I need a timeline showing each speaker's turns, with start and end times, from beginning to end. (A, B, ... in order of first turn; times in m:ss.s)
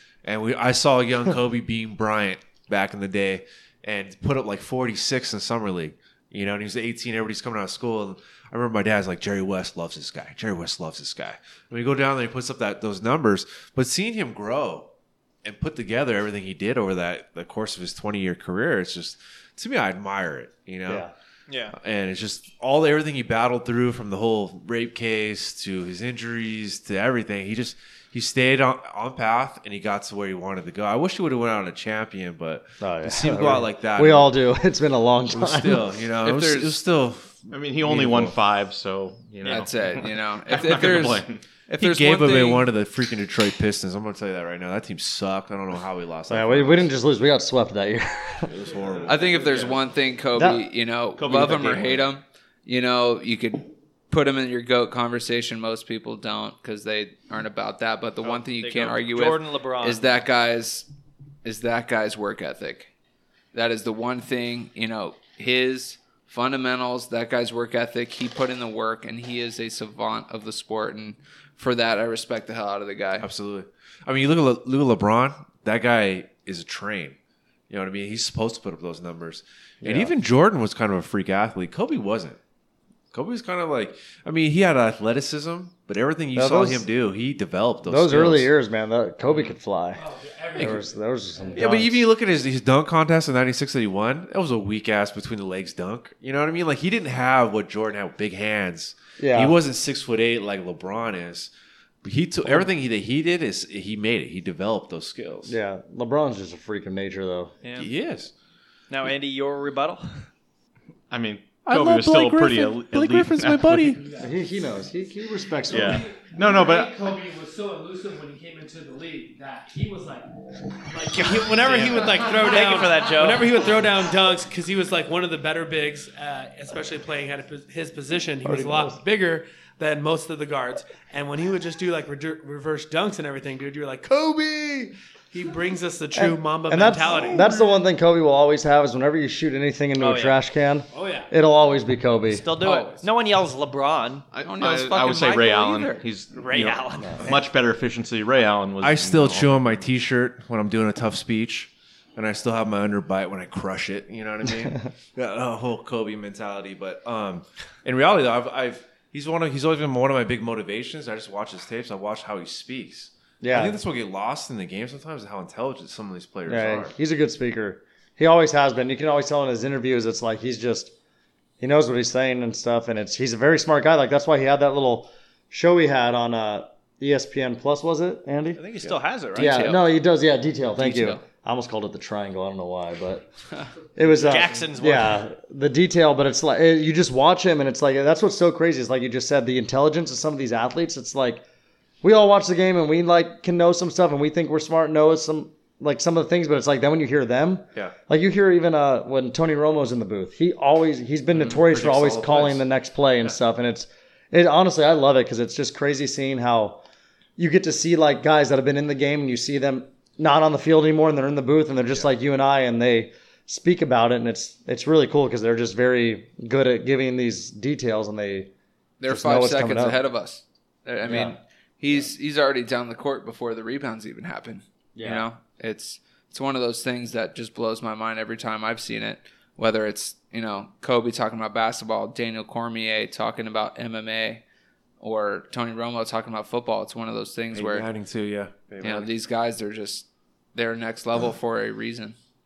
0:00.2-0:14.9 A
0:15.4-0:21.1 A
0:20.9-0:21.1 B
0:21.5-0:21.8 C
0:21.7-0:34.3 A
0:32.8-0:36.0 B
0:35.3-0:38.3 A
0:36.2-0:36.7 D
0:37.5-0:41.4 E
0:39.4-0:42.7 D
0:41.8-0:46.9 A
0:46.3-0:48.5 B
0:48.4-0:49.7 A
0:48.9-0:49.8 E
0:49.1-1:00.9 D
0:50.4-0:50.6 B
0:51.1-0:52.1 E
0:58.2-1:00.1 C
1:01.4-1:02.9 D
1:03.5-1:13.3 D
1:13.2-1:17.2 A
1:17.7-1:22.4 A
1:19.8-1:20.1 B
1:23.1-1:28.5 A
1:26.3-1:26.8 B
1:27.8-1:30.0 B
1:30.0-1:31.5 F
1:30.6-1:32.1 B
1:31.5-1:41.5 A
1:39.2-1:39.6 B
1:42.0-1:45.5 A
1:45.4-1:47.5 B
1:47.6-1:47.9 C
1:47.8-1:48.3 A
1:48.9-1:50.2 C
1:51.1-1:53.9 E
1:51.6-1:54.0 A
1:53.9-1:54.4 F
1:54.2-1:56.0 B
1:55.7-2:00.3 F
1:55.7-1:56.9 E
2:00.9-2:17.4 F
2:01.0-2:03.7 C
2:08.4-2:09.0 B
2:16.2-2:22.4 B
2:20.0-2:20.4 C
2:20.9-2:21.3 F
2:22.3-2:24.3 C
2:22.6-2:23.0 D
2:24.3-2:29.8 E
2:24.4-2:26.0 D
2:26.3-2:27.3 C
2:28.8-2:46.9 A
2:43.4-2:43.8 B
2:46.5-2:50.9 B
2:51.6-2:58.6 B
2:58.5-2:59.7 C
2:59.3-2:59.8 D
2:59.3-3:03.3 B
3:00.8-3:01.2 D
3:03.9-3:11.4 B
3:04.1-3:05.2 C
3:12.0-3:26.8 B
3:21.3-3:22.6 A
3:27.4-3:38.5 B
3:39.0-3:54.4 D
3:39.1-3:40.0 B
3:41.0-3:41.4 B
3:44.9-3:45.2 B
3:55.0-3:57.8 D
3:57.5-3:59.1 A
3:58.8-4:02.2 D